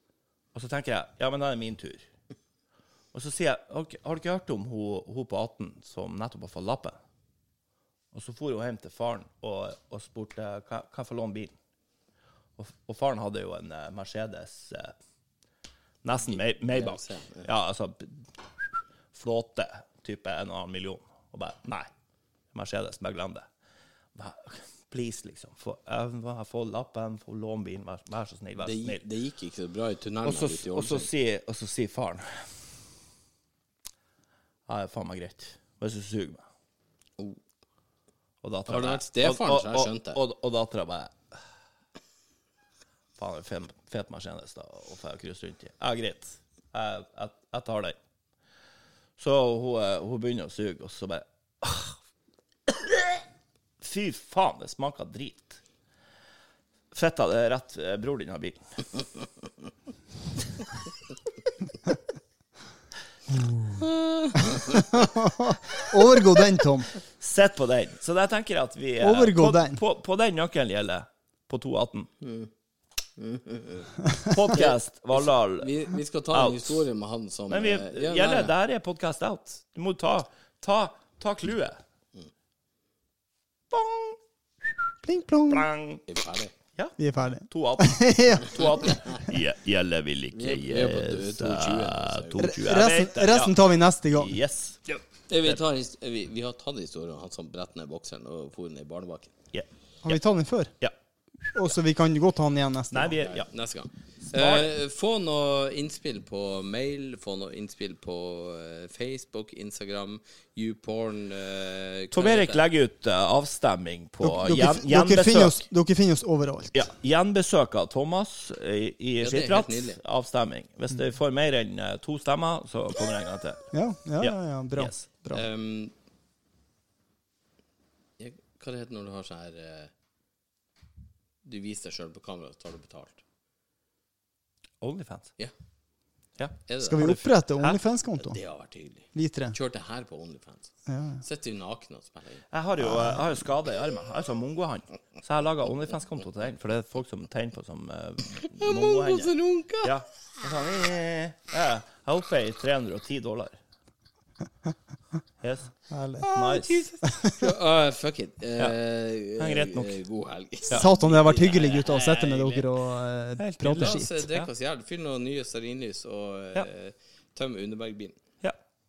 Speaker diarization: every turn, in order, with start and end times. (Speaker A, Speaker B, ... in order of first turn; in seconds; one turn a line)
Speaker A: 0.5-2.1
Speaker A: 3.1-7.0
Speaker A: 8.1-11.5
Speaker A: 12.6-14.9
Speaker A: 16.0-21.9
Speaker B: 16.7-17.5
Speaker A: 22.5-23.4
Speaker A: 24.1-29.0
Speaker B: 28.6-31.1
Speaker A: 30.2-32.6
Speaker A: 34.7-36.4
Speaker A: 38.4-41.4
Speaker B: 38.7-40.2
Speaker A: 43.2-48.0
Speaker A: 49.2-52.0
Speaker A: 52.7-53.2
Speaker A: 53.8-55.6
Speaker A: 56.9-59.0
Speaker B: 63.8-64.8
Speaker C: 64.7-67.0
Speaker A: 67.2-72.1
Speaker C: 69.0-69.8
Speaker B: 72.2-72.5
Speaker B: 73.2-73.9
Speaker A: 74.3-75.7
Speaker B: 74.5-78.5
Speaker A: 76.3-76.8
Speaker A: 77.5-81.8
Speaker A: 83.7-84.9
Speaker C: 85.0-85.7
Speaker A: 85.5-86.0
Speaker B: 86.1-86.5
Speaker A: 86.7-93.5
Speaker C: 87.0-88.9
Speaker B: 90.3-92.5
Speaker C: 92.4-94.3
Speaker A: 94.1-95.6
Speaker B: 95.3-99.3
Speaker A: 99.5-100.2
Speaker C: 100.0-100.7
Speaker C: 101.5-103.2
Speaker A: 102.9-103.5
Speaker B: 103.2-112.6
Speaker A: 104.3-104.7
Speaker A: 112.1-115.6
Speaker C: 114.2-116.7
Speaker A: 116.7-125.0
Speaker B: 119.2-120.0
Speaker C: 123.7-125.4
Speaker B: 125.3-125.9
Speaker B: 128.2-129.9
Speaker B: 131.4-133.2
Speaker A: 134.8-135.3
Speaker A: 136.4-137.8
Speaker B: 136.7-137.1
Speaker C: 136.8-138.4
Speaker B: 138.2-142.4
Speaker C: 139.1-139.5
Speaker C: 140.9-141.2
Speaker A: 142.5-153.6
Speaker B: 148.6-149.9
Speaker A: 155.4-155.8
Speaker C: 155.9-156.3
Speaker B: 156.2-162.7
Speaker A: 156.3-156.8
Speaker C: 157.0-157.4
Speaker A: 159.4-160.0
Speaker C: 160.7-164.2
Speaker A: 163.4-164.5
Speaker B: 163.8-168.2